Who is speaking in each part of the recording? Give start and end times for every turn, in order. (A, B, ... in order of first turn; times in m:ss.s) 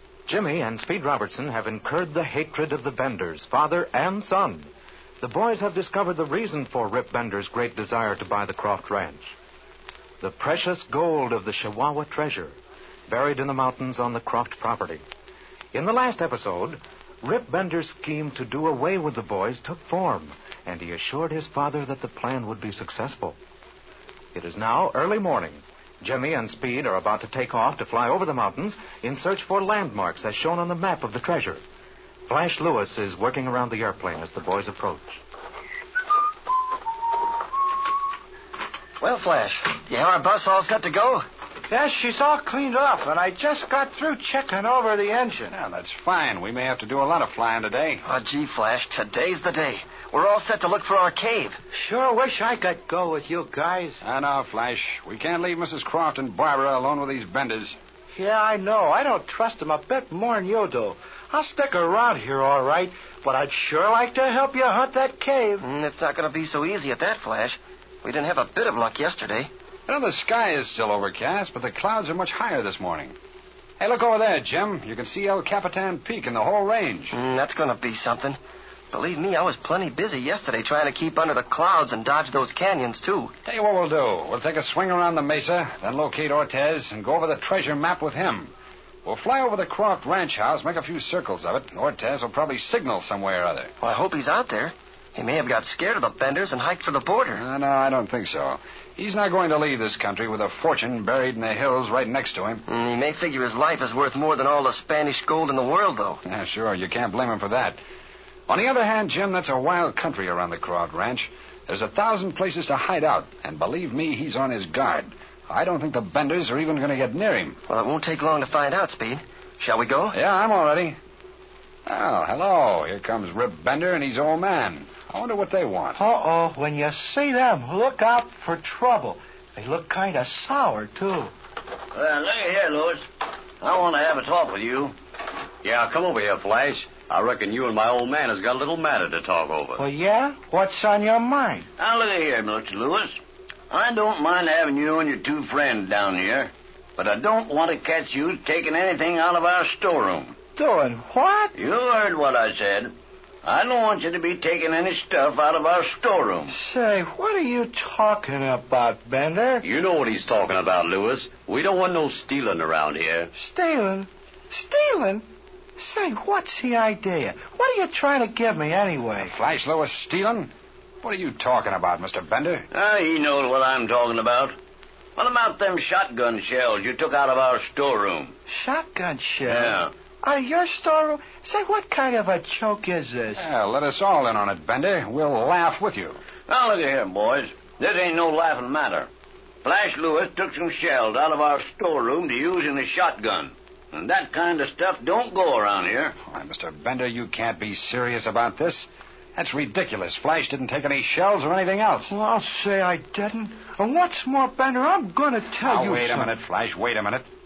0:00.3-0:04.7 A
0:05.2-0:09.3 A
0:10.2-0:12.5 A
0:13.1-0:15.0 A
0:15.7-0:23.4 A
0:24.3-0:31.6 A
0:32.2-0:35.2 A
0:39.0-0:41.2 B
0:41.7-0:45.5 C
0:45.5-0:48.0 D
0:48.0-0:51.6 B
0:51.7-0:54.0 C
0:54.0-0:57.8 D
0:58.2-1:05.6 C
1:05.6-1:09.5 B
1:09.9-1:13.1 D
1:13.8-1:17.2 D
1:17.1-1:18.4 B
1:18.9-1:23.3 B
1:23.4-1:28.5 D
1:29.0-1:33.7 D
1:33.8-1:37.4 B
1:37.3-1:42.6 D
1:42.7-1:46.2 B
1:46.2-1:47.8 D
1:48.5-1:57.6 D
1:57.7-2:00.1 B
2:00.1-2:01.0 D
2:01.8-2:06.0 D
2:06.0-2:11.3 C
2:11.9-2:13.0 E
2:13.6-2:14.9 E
2:15.6-2:19.8 F
2:19.8-2:21.6 C
2:21.8-2:23.2 E
2:23.7-2:30.4 E
2:30.6-2:31.5 C
2:31.6-2:36.5 E
2:36.5-2:39.6 C
2:39.6-2:43.3 F
2:43.4-2:45.2 C
2:45.8-2:49.3 C
2:49.2-2:50.5 D
2:51.0-2:52.6 D
2:52.7-2:54.5 E
2:55.2-2:58.3 E
2:58.5-3:03.4 C
2:59.5-2:59.9 E
3:03.4-3:06.2 D
3:06.5-3:09.1 E
3:09.6-3:16.2 E
3:16.3-3:22.1 D
3:22.1-3:26.3 C
3:25.6-3:27.2 D